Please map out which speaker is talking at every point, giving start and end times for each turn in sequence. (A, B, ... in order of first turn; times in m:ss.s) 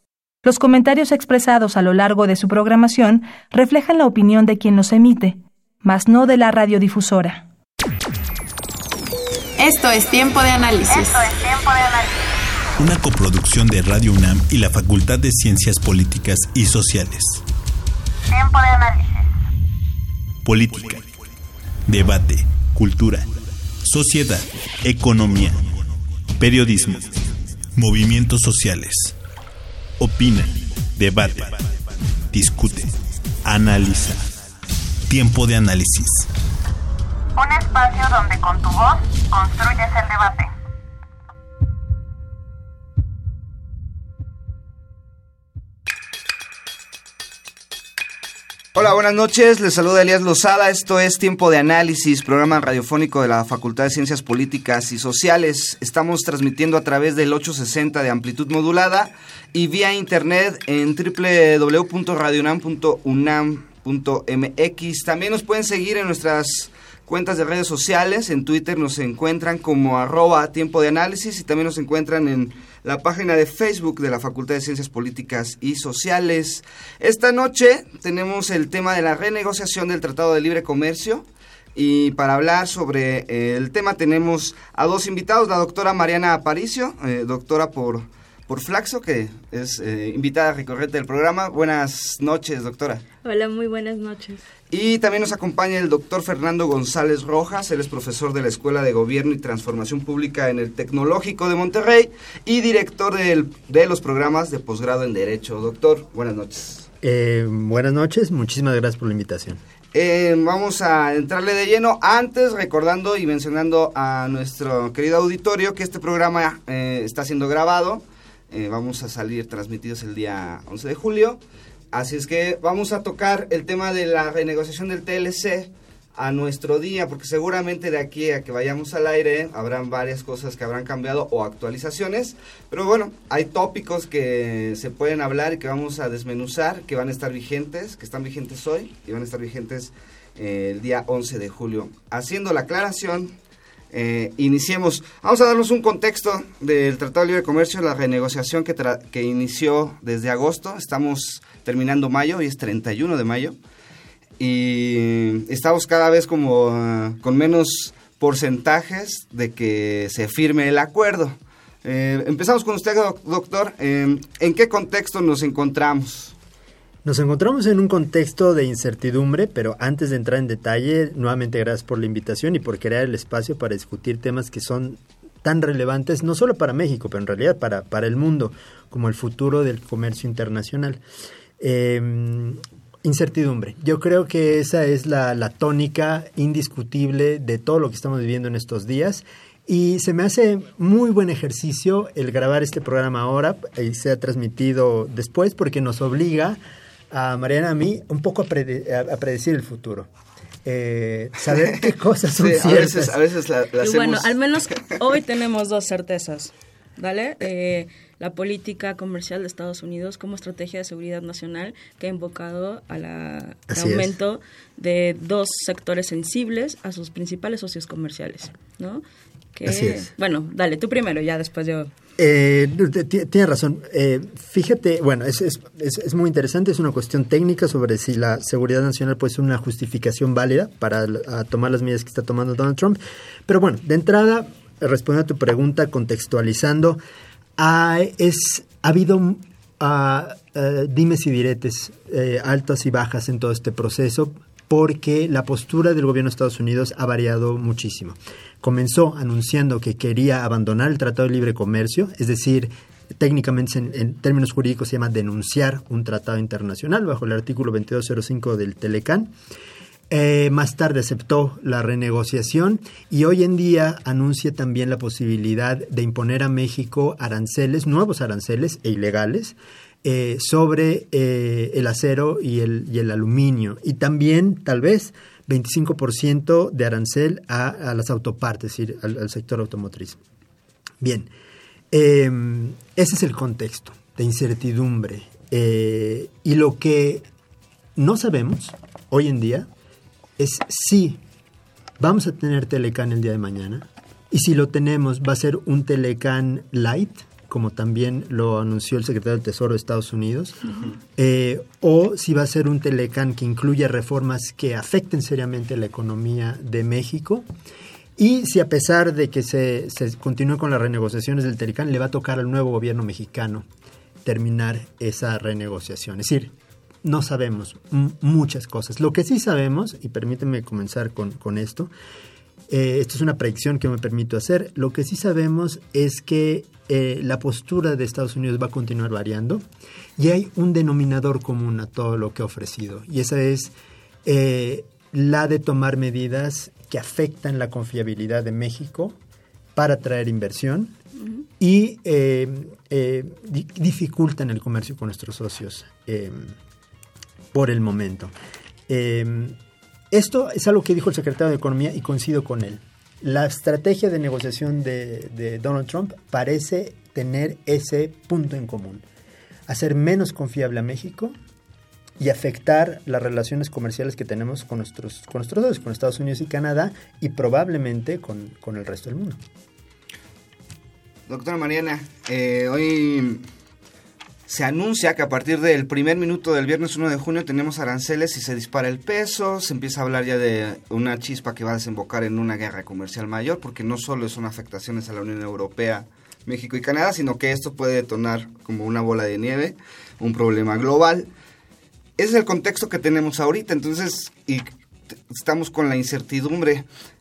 0:00.4-0:07.4 A
0:09.6-0:12.2 B
0:12.8-0:17.4 C
0:18.3-0:19.3 B
0:20.4-0:21.0 C
0:21.9-0:23.3 C
0:23.8-0:25.6 C
0:26.4-0:27.2 C
0:27.8-0:29.2 C
0:30.0-0:31.7 C
0:32.3-0:32.9 C
0:33.4-0:34.2 C
0:35.1-0:36.3 C
0:37.4-0:40.5 B
0:48.7-1:33.0 D
1:33.2-1:34.4 E
1:34.7-1:46.9 D
1:47.0-1:49.6 F
1:49.9-2:01.4 D
2:01.9-2:23.4 D
2:23.9-2:33.6 D
2:34.4-2:46.4 D
2:47.0-3:01.0 F
3:01.6-3:16.6 F
3:17.1-3:20.1 F
3:20.6-3:23.2 F
3:22.4-3:24.4 D
3:23.8-3:39.0 E
3:33.7-3:34.1 F
3:39.5-3:41.9 E
3:39.6-3:40.1 F
3:42.2-3:57.0 F
3:57.6-4:19.3 F
4:20.1-4:40.2 F
4:41.0-4:41.3 F
4:41.9-4:47.2 F
4:48.0-4:49.7 F
4:50.4-4:51.2 F
4:52.0-5:07.4 F
5:08.2-5:13.7 F
5:14.2-5:16.5 F
5:17.0-5:21.9 F
5:22.7-5:29.6 F
5:30.2-5:33.7 F
5:34.2-5:39.2 F
5:39.8-5:40.9 F
5:41.6-5:46.5 F
5:47.5-5:48.3 F
5:48.9-5:49.6 F
5:50.1-5:59.0 F
5:59.7-6:01.3 F
6:02.2-6:09.4 F
6:11.3-6:13.4 D
6:14.5-6:31.3 D
6:32.2-6:36.9 D